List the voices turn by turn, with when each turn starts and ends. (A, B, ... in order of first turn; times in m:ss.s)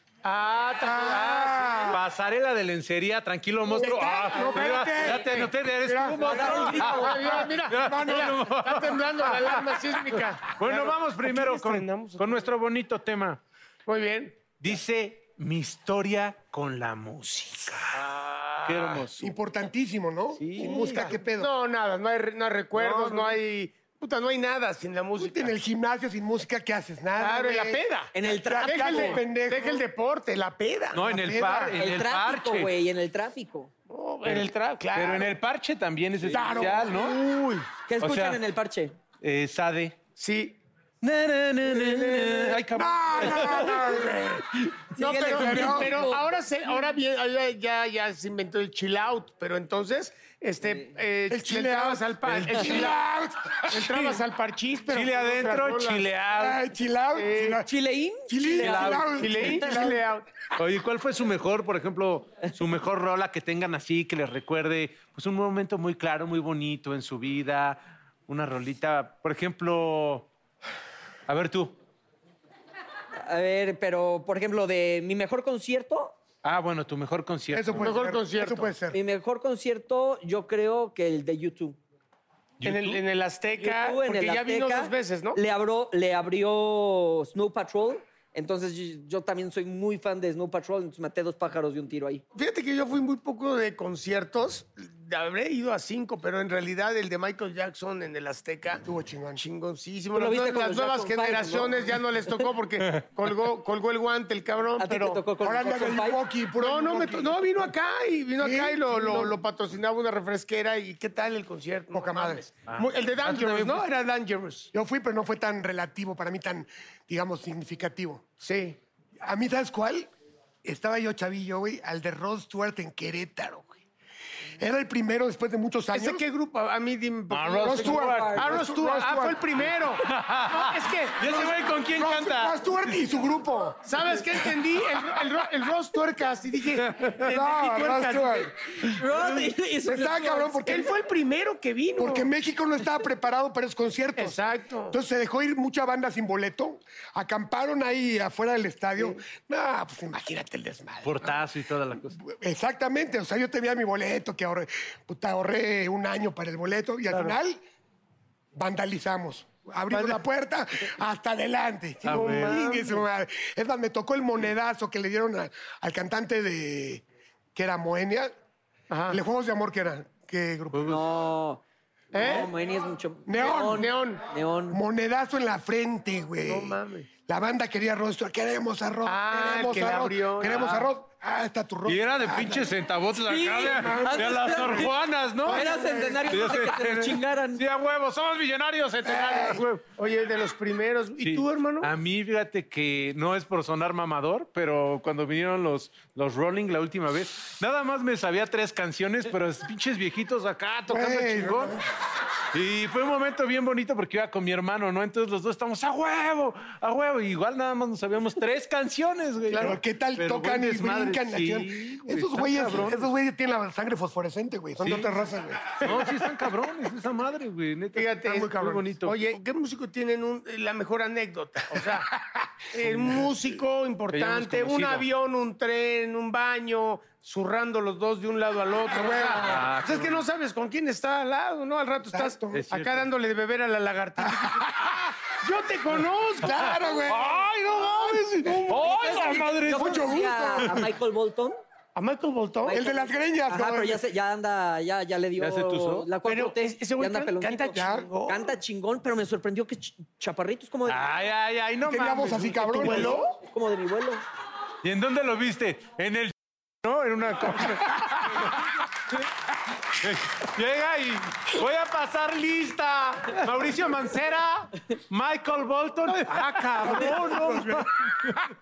0:00.2-0:01.5 A
0:00.8-0:02.0 B
0:01.9-0:09.7 C
0:03.7-0:08.4 B
0:06.2-0:07.1 D
0:06.8-0:12.5 A
0:09.4-0:09.8 B
0:10.5-0:13.4 C
0:13.8-0:14.5 A
0:14.6-0:18.0 C
0:18.0-0:19.0 A
0:18.6-0:19.3 C
0:19.2-0:21.5 B
0:20.4-0:21.1 C
0:20.6-0:25.5 A
0:22.8-0:23.4 C
0:25.2-0:27.8 B
0:27.2-0:31.1 A
0:28.1-0:29.2 D
0:28.4-0:29.8 B
0:30.9-0:32.7 C
0:31.0-0:31.8 B
0:31.8-0:33.7 D
0:33.9-0:35.3 A
0:34.2-0:37.2 C
0:36.3-0:37.0 B
0:36.3-0:37.7 A
0:37.9-0:39.0 D
0:38.0-0:38.4 C
0:39.2-0:40.0 C
0:40.2-0:40.6 A
0:41.0-0:43.8 C
0:41.7-0:42.6 A
0:42.7-0:44.2 B
0:44.1-0:44.4 A
0:44.9-0:46.2 D
0:45.0-0:53.0 A
0:45.0-0:46.1 B
0:51.3-0:53.6 B
0:52.2-0:52.8 C
0:53.7-0:56.1 A
0:53.8-0:54.2 C
0:54.9-0:56.6 C
0:56.4-0:57.7 B
0:57.1-0:57.6 A
0:57.6-0:59.7 D
0:58.3-1:00.0 B
0:58.6-0:59.2 C
0:59.2-1:00.2 A
1:00.6-1:10.3 C
1:11.3-1:11.8 C
1:13.2-1:16.2 D
1:16.4-1:17.9 C
1:17.5-1:19.0 B
1:17.8-1:18.7 A
1:18.9-1:21.8 D
1:22.6-1:23.0 C
1:22.6-1:25.4 A
1:23.6-1:32.2 D
1:32.3-1:38.8 A
1:38.8-1:39.4 B
1:39.4-1:45.2 A
1:40.1-1:41.8 D
1:44.8-1:46.2 D
1:45.4-1:47.7 B
1:46.6-1:54.7 A
1:48.4-1:49.4 B
1:51.9-1:52.4 B
1:52.7-1:53.8 C
1:54.7-1:58.2 B
1:58.4-1:58.8 A
1:59.2-2:00.1 B
2:00.6-2:03.8 B
2:04.6-2:06.2 B
2:05.9-2:11.5 A
2:07.3-2:08.4 C
2:07.6-2:09.5 B
2:07.8-2:08.6 D
2:10.0-2:12.6 C
2:11.2-2:14.2 B
2:13.8-2:18.5 A
2:16.8-2:17.3 C
2:17.2-2:18.5 B
2:18.8-2:20.6 D
2:19.8-2:20.9 B
2:20.6-2:22.3 A
2:22.0-2:31.4 B
2:24.2-2:25.0 A
2:31.0-2:32.2 C
2:32.2-2:37.6 B
2:37.1-2:37.3 A
2:38.5-2:48.3 B
2:39.9-2:40.2 A
2:42.0-2:42.6 C
2:42.1-2:43.0 A
2:48.9-2:49.2 A
2:49.1-2:51.0 B
2:50.7-2:51.0 C
2:50.8-2:51.6 D
2:52.1-2:52.5 A
2:52.1-2:54.8 D
2:53.3-2:53.9 B
2:53.6-2:54.2 A
2:54.7-3:02.7 B
2:56.4-2:57.1 A
2:59.0-3:00.9 A
3:01.9-3:09.8 C
3:03.2-3:07.6 D
3:03.8-3:04.8 B
3:05.5-3:06.3 B
3:09.0-3:09.6 B
3:10.0-3:11.9 A
3:11.2-3:21.8 C
3:20.9-3:21.8 B
3:22.5-3:33.1 C
3:29.6-3:36.1 B
3:34.8-3:35.1 C
3:35.8-3:39.2 C
3:38.0-3:42.1 A
3:38.2-3:38.8 B
3:42.2-3:43.1 B
3:42.7-3:54.6 A
3:44.1-3:45.1 C
3:48.9-3:49.6 B
3:49.3-3:50.2 C
3:52.1-3:52.6 B
3:52.5-3:53.0 C
3:54.2-3:55.0 B
3:55.4-3:56.6 A
3:56.4-3:57.4 B
3:56.5-4:00.1 C
3:58.4-3:59.6 A
3:58.8-4:01.6 D
3:59.7-4:00.9 B
4:01.9-4:02.7 A
4:02.6-4:11.0 D
4:02.7-4:04.0 B
4:05.4-4:06.1 C
4:06.2-4:08.5 A
4:07.7-4:08.1 B
4:10.8-4:13.2 C
4:11.8-4:13.2 B
4:12.8-4:13.2 A
4:12.9-4:14.2 D
4:14.8-4:18.7 C
4:19.9-4:28.4 C
4:26.9-4:27.9 B